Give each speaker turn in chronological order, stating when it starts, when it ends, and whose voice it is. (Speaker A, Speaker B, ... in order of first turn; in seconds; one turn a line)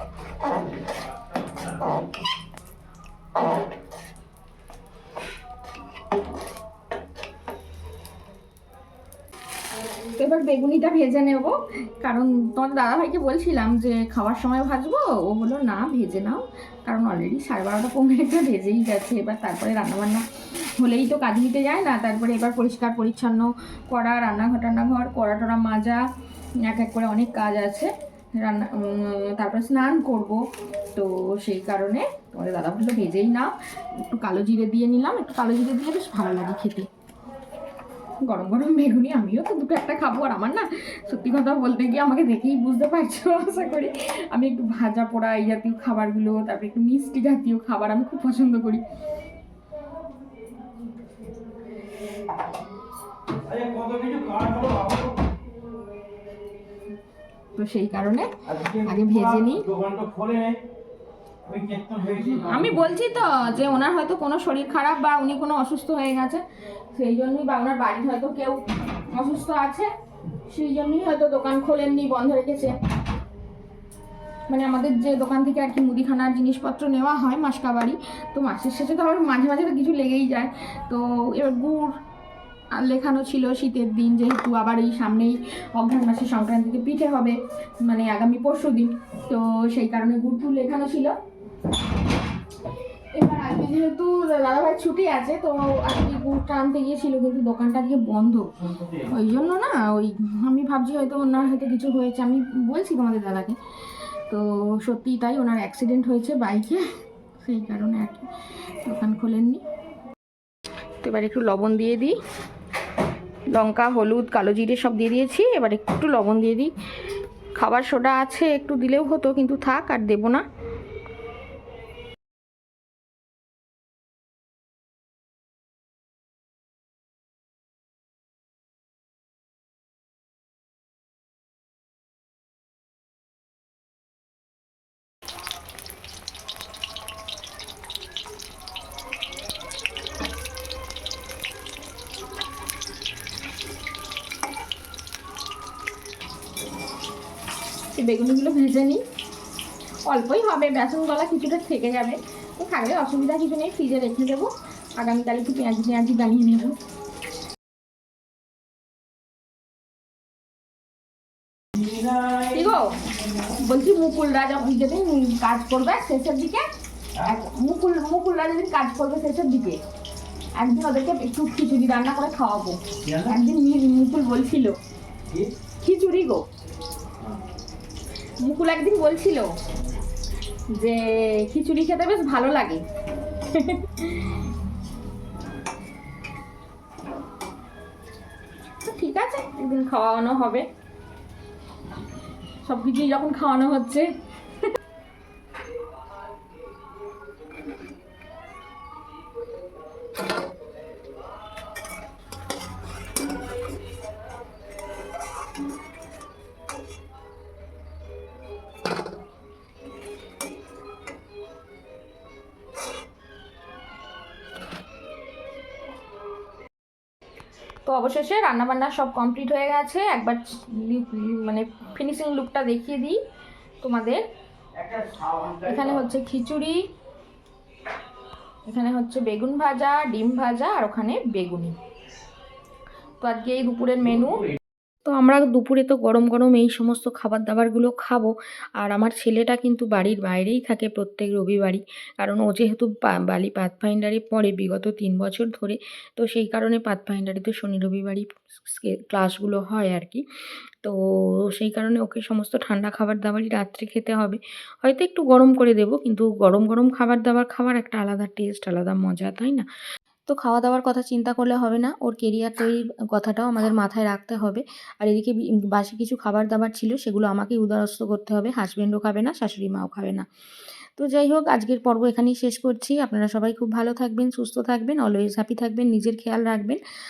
Speaker A: 10.2-26.0
Speaker A: 26.6-36.9
Speaker A: 38.2-48.8
Speaker A: 57.6-59.9
Speaker A: 61.9-72.8
Speaker A: 74.5-82.0
Speaker A: 82.7-91.2
Speaker A: 93.1-103.6
Speaker A: 104.3-106.9
Speaker A: 107.4-108.3
Speaker A: 108.8-109.6
Speaker A: 111.0-112.2
Speaker A: 113.5-116.7
Speaker A: 117.6-120.4
Speaker A: 147.9-149.0
Speaker A: 150.1-156.8
Speaker A: 162.3-169.8
Speaker A: 170.6-174.8
Speaker A: 175.8-176.4
Speaker A: 178.4-179.5
Speaker A: 180.8-184.4
Speaker A: 188.8-190.7
Speaker A: 192.6-194.1
Speaker A: 217.9-223.2
Speaker A: 223.8-224.2
Speaker A: 224.9-226.8
Speaker A: 228.7-231.8
Speaker A: 233.2-234.5
Speaker A: 235.1-237.5
Speaker B: 235.4-236.0
Speaker B: 237.0-238.3
Speaker B: 238.8-250.2
Speaker A: 243.7-244.1
Speaker A: 245.0-245.3
Speaker A: 246.2-247.8
Speaker A: 249.1-250.1
Speaker B: 251.5-254.4
Speaker A: 253.1-253.4
Speaker B: 255.0-259.6
Speaker A: 257.2-257.5
Speaker B: 260.3-270.2
Speaker A: 263.3-263.9
Speaker A: 268.3-269.9
Speaker A: 271.0-274.0
Speaker B: 271.2-276.8
Speaker A: 274.8-275.6